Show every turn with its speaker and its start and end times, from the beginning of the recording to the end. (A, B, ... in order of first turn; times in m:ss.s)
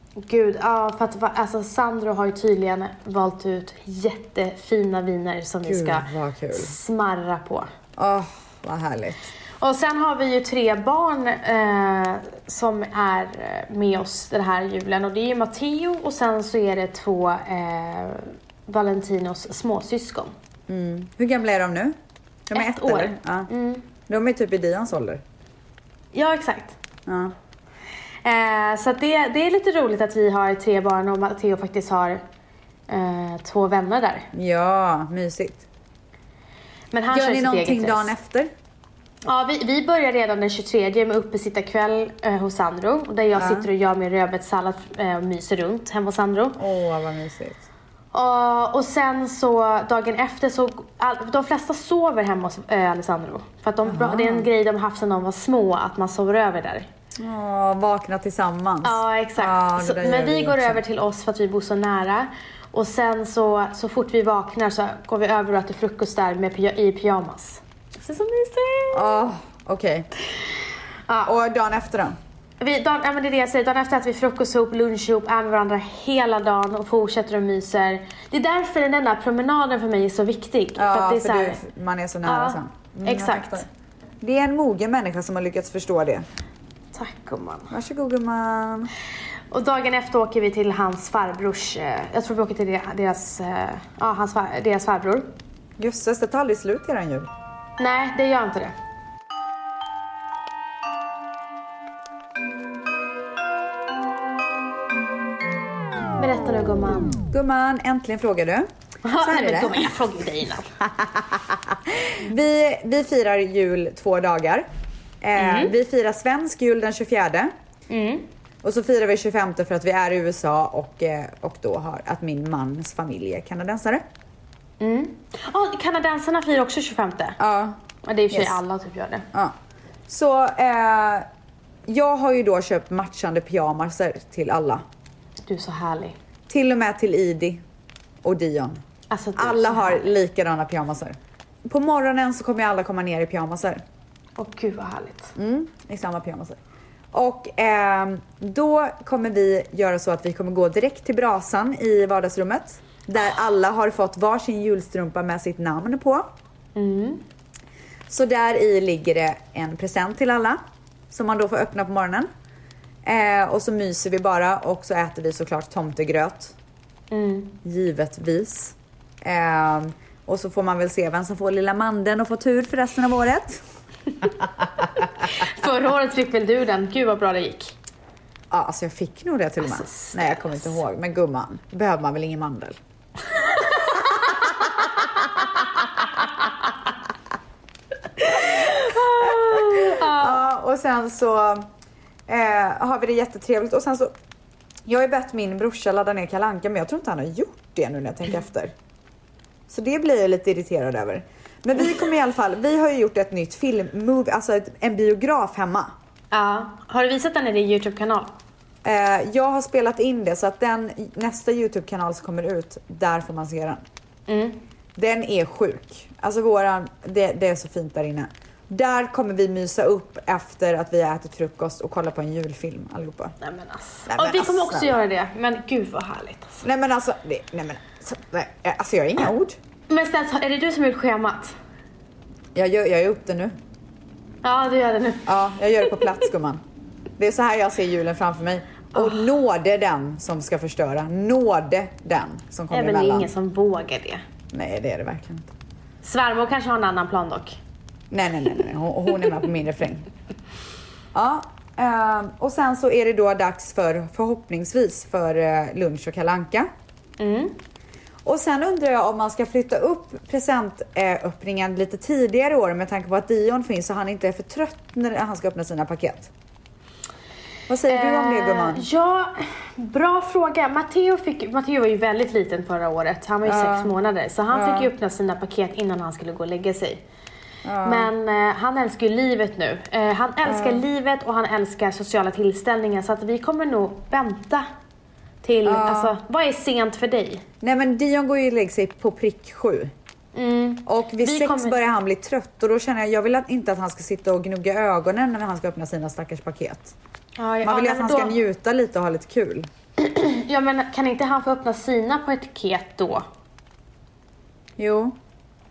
0:00.2-0:07.7 A
0:05.6-0:06.7 B
0:08.0-0:09.3 B
0:09.6-0:20.3 A
0:20.7-0:22.0 B
0:22.5-0:23.5 B
0:22.5-0:23.8 A
0:24.1-0:25.2 B
0:26.1-0:26.8 A
0:27.0-0:27.3 B
0:28.2-0:32.2 A
0:32.9-0:34.3 A
0:34.3-0:35.6 B
0:36.9-0:38.1 A
0:37.1-0:38.5 B
0:39.2-0:46.6 A
0:43.3-0:43.7 B
0:46.6-0:47.6 B
0:48.1-0:56.9 A
0:53.8-0:54.5 B
0:57.2-1:00.8 B
0:58.8-1:09.0 A
1:08.9-1:10.1 B
1:11.1-1:11.3 A
1:11.2-1:12.2 B
1:12.6-1:21.6 A
1:20.8-1:23.6 B
1:22.2-1:23.6 A
1:24.2-1:26.2 B
1:26.9-1:27.7 A
1:27.7-1:28.9 B
1:29.5-1:35.3 A
1:35.8-1:37.3 B
1:37.8-1:38.7 A
1:46.2-1:47.2 A
1:47.3-1:48.7 B
1:49.0-1:50.7 A
1:49.2-1:50.0 B
1:50.8-1:54.6 B
1:55.2-1:57.5 B
1:55.4-1:55.7 A
1:57.9-1:58.2 A
1:58.6-2:04.0 B
2:04.8-2:07.4 A
2:07.4-2:07.8 B
2:08.0-2:09.2 A
2:08.3-2:08.6 B
2:10.1-2:11.3 B
2:11.8-2:14.8 B
2:15.4-2:16.1 A
2:16.5-2:17.6 B
2:18.2-2:18.8 B
2:19.1-2:20.1 A
2:19.4-2:23.8 B
2:24.4-2:25.3 A
2:25.4-2:26.6 B
2:27.1-2:36.2 B
2:36.7-2:37.2 A
2:38.1-2:40.6 B
2:41.1-2:42.3 B
2:43.0-2:46.5 B
2:47.1-2:47.6 A
2:47.6-2:53.6 B
2:55.2-2:57.8 A
2:58.5-3:02.8 B
2:59.6-3:00.8 A
3:03.6-3:04.2 A
3:04.3-3:04.8 B
3:08.3-3:10.4 A
3:08.3-3:11.7 B
3:12.3-3:14.1 B
3:14.8-3:18.7 B
3:19.7-3:25.9 B
3:26.3-3:28.3 A
3:28.8-3:33.8 B
3:34.3-3:34.6 A
3:34.9-3:43.3 B
3:43.4-3:46.6 A
3:44.1-3:45.0 B
3:46.6-3:49.6 B
3:49.9-3:51.6 A
3:52.5-3:53.5 B
3:54.4-3:55.3 A
3:55.2-3:56.6 B
3:57.2-4:03.3 B
3:58.9-3:59.2 A
4:02.7-4:04.2 A
4:04.5-4:05.5 B
4:06.0-4:07.6 A
4:08.1-4:10.0 B
4:11.1-4:16.7 B
4:17.2-4:17.6 A
4:18.2-4:26.3 B
4:27.7-4:28.8 B
4:27.9-4:37.0 A
4:33.4-4:33.9 B
4:34.5-4:34.9 B
4:37.6-4:38.1 B
4:37.8-4:44.6 A
4:40.4-4:40.8 B
4:45.4-4:47.4 A
4:45.6-4:46.2 B
4:47.6-4:49.9 B
4:50.3-4:51.8 A
4:50.8-4:56.9 B
4:57.4-4:58.4 A
4:57.6-4:59.7 B
5:00.0-5:03.2 A
5:04.8-5:05.2 B